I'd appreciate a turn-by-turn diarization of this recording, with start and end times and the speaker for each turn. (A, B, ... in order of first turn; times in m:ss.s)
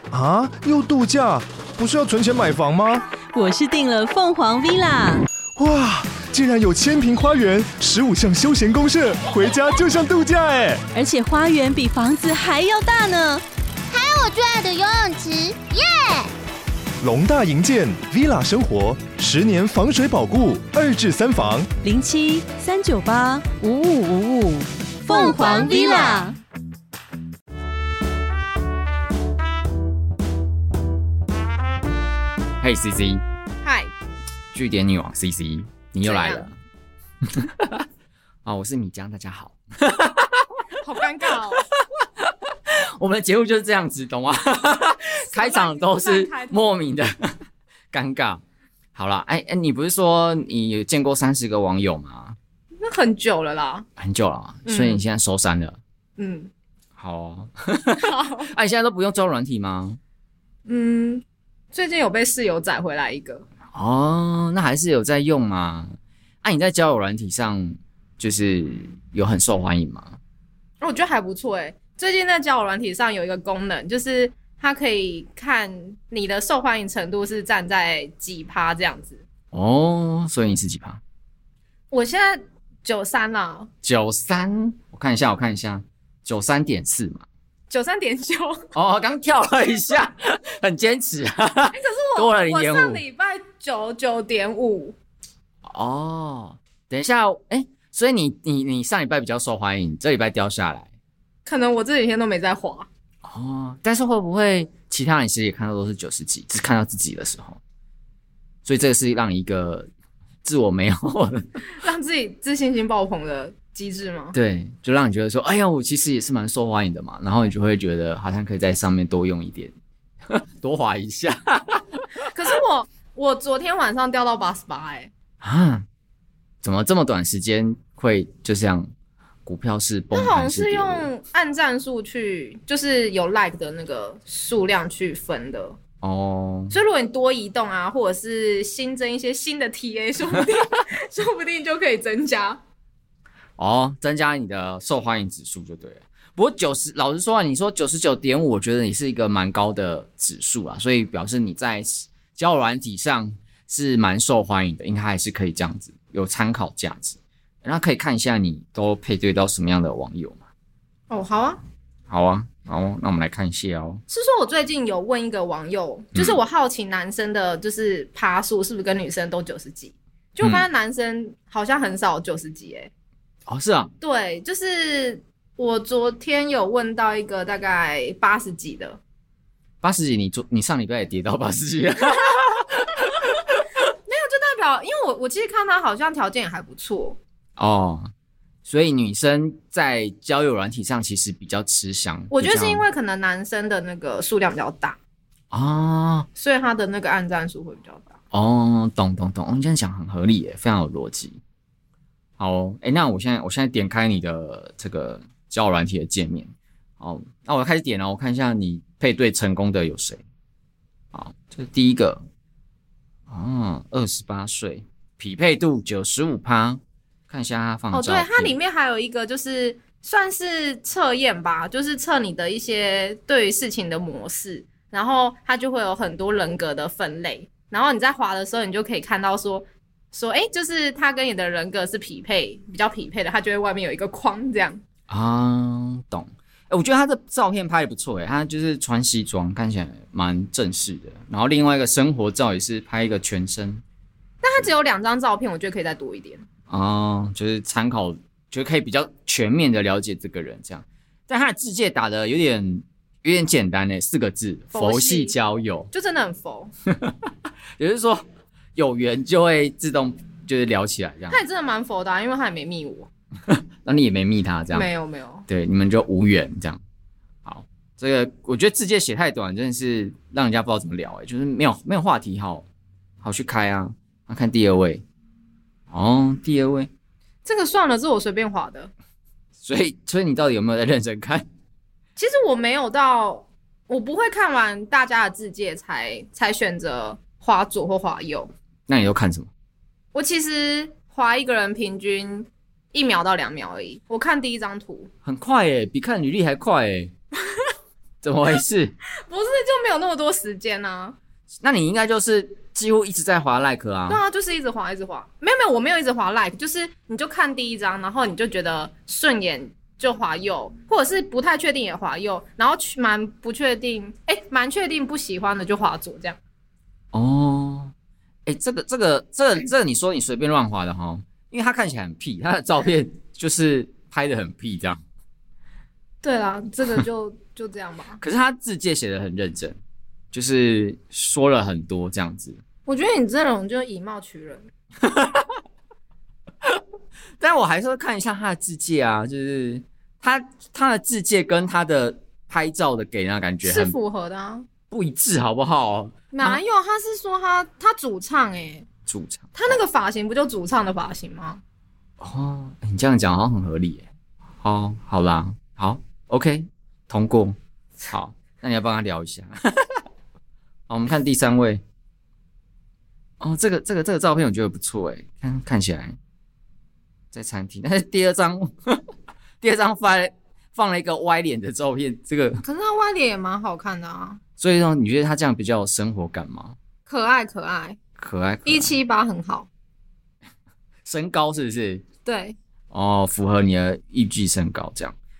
0:00.1-0:03.0 A
0:03.3-0:05.2 B
0:05.6-0:10.8 A
0:10.9-0:13.4 B
0:13.9-0:16.3 C
0:17.0-0:21.7 A
0:21.8-0:26.4 B
0:25.1-0:26.3 C
0:25.4-0:26.2 D
0:32.6-0:33.2 E
0:33.6-0:33.9 D
0:34.5-0:36.5 E
0:36.0-0:36.5 D
0:37.3-0:37.9 E
0:38.4-0:40.6 E
0:40.8-0:41.7 D
0:41.5-0:47.4 E
0:45.3-0:46.6 D
0:47.9-0:48.4 E
0:49.0-0:52.4 E
0:52.8-0:53.9 D
0:54.0-0:55.8 E
0:54.7-0:55.0 D
0:56.2-0:56.5 D
0:57.0-1:00.0 E
0:58.0-0:58.5 D
1:00.7-1:03.5 D
1:03.7-1:10.2 E
1:10.8-1:19.2 D
1:19.5-1:21.0 E
1:21.9-1:23.7 D
1:23.8-1:27.2 E
1:27.7-1:28.7 D
1:28.7-1:33.0 E
1:31.7-1:35.0 D
1:35.6-1:40.9 E
1:41.5-1:42.9 D
1:43.2-1:47.6 E
1:48.6-1:49.9 E
1:50.4-1:51.4 E
1:51.7-1:54.4 D
1:54.3-1:59.7 E
2:00.3-2:02.0 E
2:02.2-2:05.1 D
2:05.4-2:05.9 E
2:06.6-2:08.9 E
2:09.4-2:11.1 E
2:10.1-2:15.8 D
2:16.0-2:16.8 E
2:16.7-2:22.6 D
2:23.6-2:40.4 E
2:41.1-2:41.6 D
2:42.1-2:44.0 E
2:44.1-2:52.9 D
2:46.2-2:46.4 E
2:53.5-2:53.9 E
2:54.0-2:59.0 D
2:59.8-3:03.6 E
3:04.1-3:07.2 D
3:07.6-3:08.1 E
3:08.7-3:12.8 E
3:12.3-3:15.0 D
3:15.5-3:16.3 E
3:16.4-3:18.2 D
3:18.3-3:21.4 E
3:22.4-3:30.2 E
3:31.1-3:32.2 E
3:33.3-3:38.6 E
3:37.9-3:54.8 D
3:55.1-4:03.8 E
4:04.4-4:06.4 D
4:06.7-4:15.9 E
4:14.7-4:15.4 D
4:15.9-4:16.7 D
4:16.9-4:18.2 E
4:18.8-4:21.4 E
4:21.3-4:23.1 D
4:23.5-4:24.9 E
4:24.7-4:25.5 D
4:25.5-4:26.8 E
4:27.4-4:32.7 E
4:33.2-4:35.0 E
4:35.9-4:36.9 E
4:37.4-4:38.9 D
4:39.6-4:41.5 E
4:42.2-4:48.5 D
4:48.9-4:49.5 E
4:50.1-4:55.1 D
4:55.2-4:57.1 E
4:58.2-4:58.9 E
4:59.3-5:01.2 D
5:01.6-5:04.2 E
5:04.1-5:16.4 D
5:17.1-5:17.9 E
5:18.5-5:25.0 E
5:26.2-5:28.2 D
5:28.2-5:29.8 E
5:30.3-5:32.6 E
5:32.9-5:34.7 D
5:35.0-5:35.6 E
5:37.4-5:44.0 E
5:43.6-5:44.7 D
5:44.9-5:46.6 E
5:46.3-5:48.9 D
5:49.1-5:49.5 E
5:49.5-5:51.6 D
5:52.2-5:54.1 E
5:54.6-6:00.0 E
6:00.9-6:01.8 E
6:03.4-6:06.2 E
6:07.3-6:09.0 E
6:09.6-6:12.6 E
6:12.6-6:14.4 D
6:14.6-6:16.8 E
6:17.1-6:18.0 D
6:18.2-6:18.9 E
6:18.6-6:19.7 D
6:21.0-6:22.0 E
6:22.2-6:22.6 D
6:22.9-6:25.2 E